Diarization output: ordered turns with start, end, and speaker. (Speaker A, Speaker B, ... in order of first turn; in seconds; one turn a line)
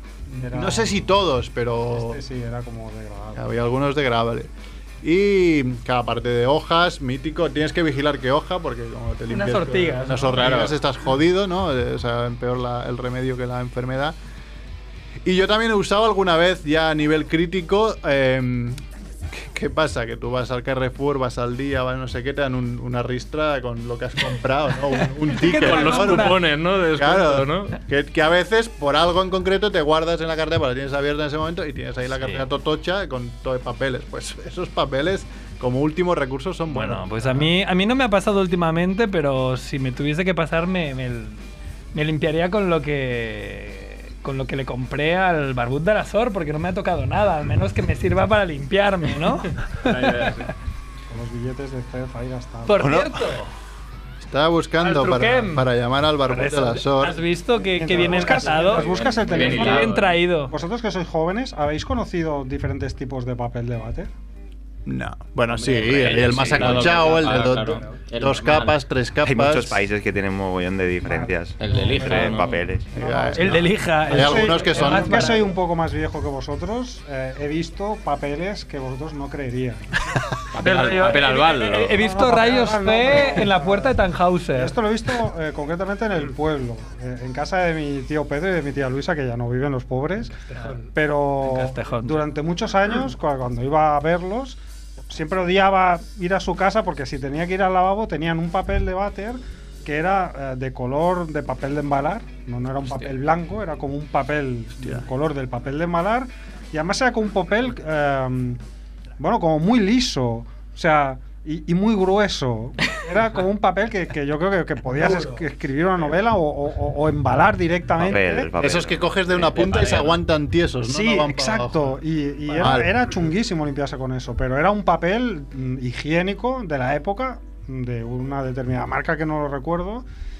Speaker A: 0.3-1.0
Speaker B: 0.5-2.2
Speaker A: 1.9-3.6
Speaker B: 3.4-4.5
Speaker B: 5.0-14.2
Speaker C: 9.3-10.6
Speaker D: 10.3-10.8
Speaker B: 15.2-26.4
Speaker C: 25.3-26.4
Speaker D: 25.5-27.8
Speaker B: 26.9-37.5
Speaker C: 32.2-32.4
Speaker C: 36.7-41.4
Speaker C: 41.9-49.6
Speaker D: 49.8-50.5
Speaker A: 51.1-52.9
Speaker C: 52.6-53.5
Speaker E: 52.8-53.1
Speaker B: 54.2-57.2
Speaker C: 54.8-55.6
Speaker C: 56.3-60.5
Speaker A: 57.7-64.1
Speaker D: 58.0-60.2
Speaker B: 64.9-69.8
Speaker D: 65.5-68.8
Speaker E: 69.2-72.9
Speaker A: 71.0-79.9
Speaker D: 71.6-72.5
Speaker B: 72.9-75.3
Speaker C: 73.4-75.5
Speaker D: 80.5-82.0
Speaker C: 80.6-84.8
Speaker A: 82.0-84.0
Speaker A: 84.5-108.6
Speaker C: 91.4-92.2
Speaker D: 102.8-103.2
Speaker A: 109.2-118.5
Speaker C: 115.0-115.4
Speaker E: 118.0-119.6
Speaker B: 118.5-121.9
Speaker D: 119.4-120.2
Speaker A: 120.8-130.1
Speaker B: 122.6-123.0